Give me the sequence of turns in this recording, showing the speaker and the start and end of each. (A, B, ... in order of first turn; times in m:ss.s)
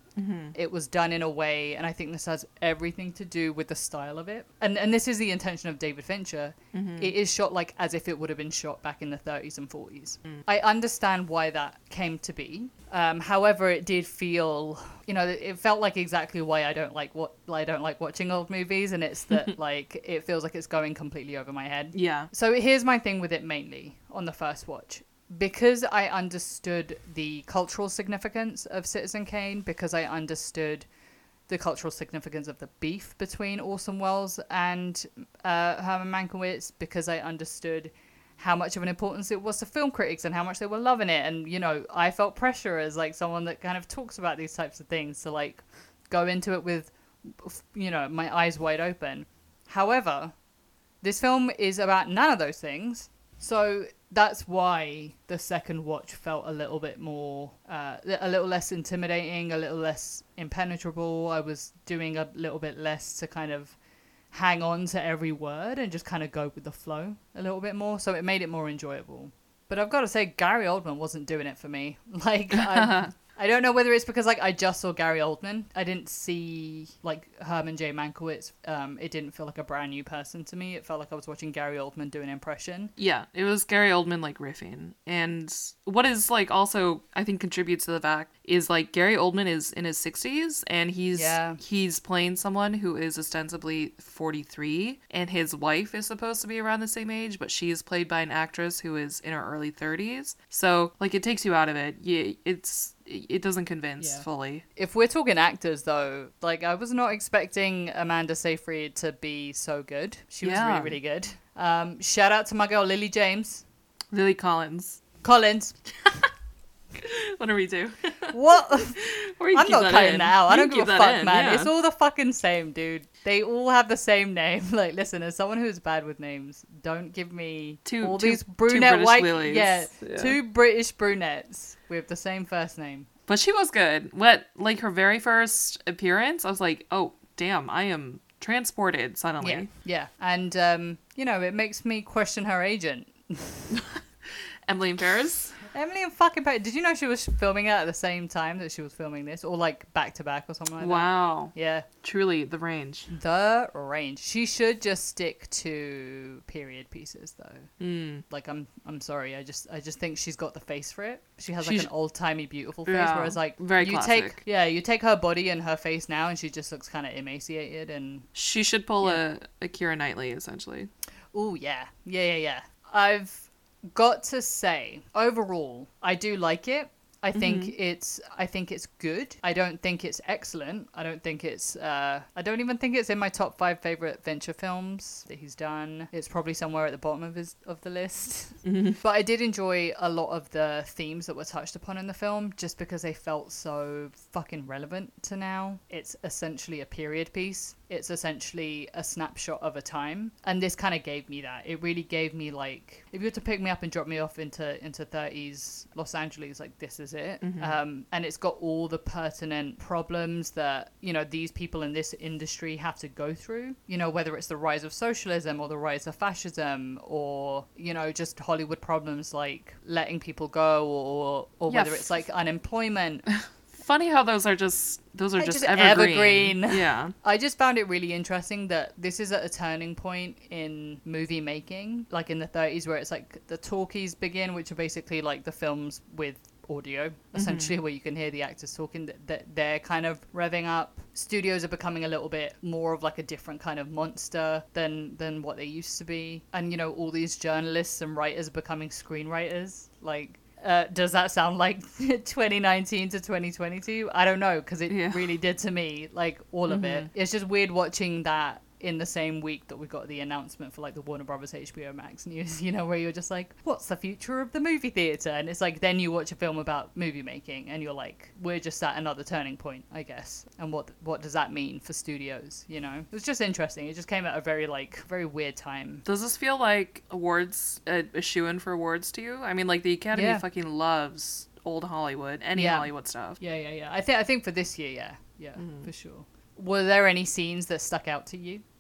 0:00.2-0:00.6 A
0:00.6-0:30.9 B
0:06.7-0:07.1 A
0:21.9-0:22.3 A
0:31.5-0:50.4 B
0:51.0-1:03.8 B
1:04.3-1:22.9 B
1:12.5-1:13.1 A
1:23.0-1:44.6 A
1:31.1-1:31.6 B
1:44.0-1:53.6 B
1:50.4-1:51.0 A
1:54.1-1:55.0 A
1:55.2-1:55.8 B
1:57.0-2:01.7 A
1:58.3-1:59.0 B
1:59.5-2:13.1 B
2:07.8-2:10.4 A
2:13.3-2:19.7 A
2:19.4-2:23.8 B
2:23.7-2:24.0 A
2:24.7-2:25.7 A
2:25.7-2:31.9 B
2:30.8-2:33.1 A
2:33.1-2:37.7 B
2:37.8-2:38.2 A
2:38.3-2:48.3 B
2:41.6-2:41.9 A
2:42.9-2:44.4 A
2:48.3-2:50.9 A
2:51.3-3:43.3 B
2:57.4-2:57.7 A
3:08.6-3:09.0 A
3:27.4-3:27.8 A
3:41.7-3:42.1 A
3:43.7-3:47.1 A
3:45.4-4:36.0 B
3:57.3-3:57.8 A
4:14.9-4:15.3 A
4:16.7-4:17.1 A
4:36.0-4:43.4 A
4:40.1-4:40.4 B
4:42.6-4:48.6 B
4:45.6-4:45.9 A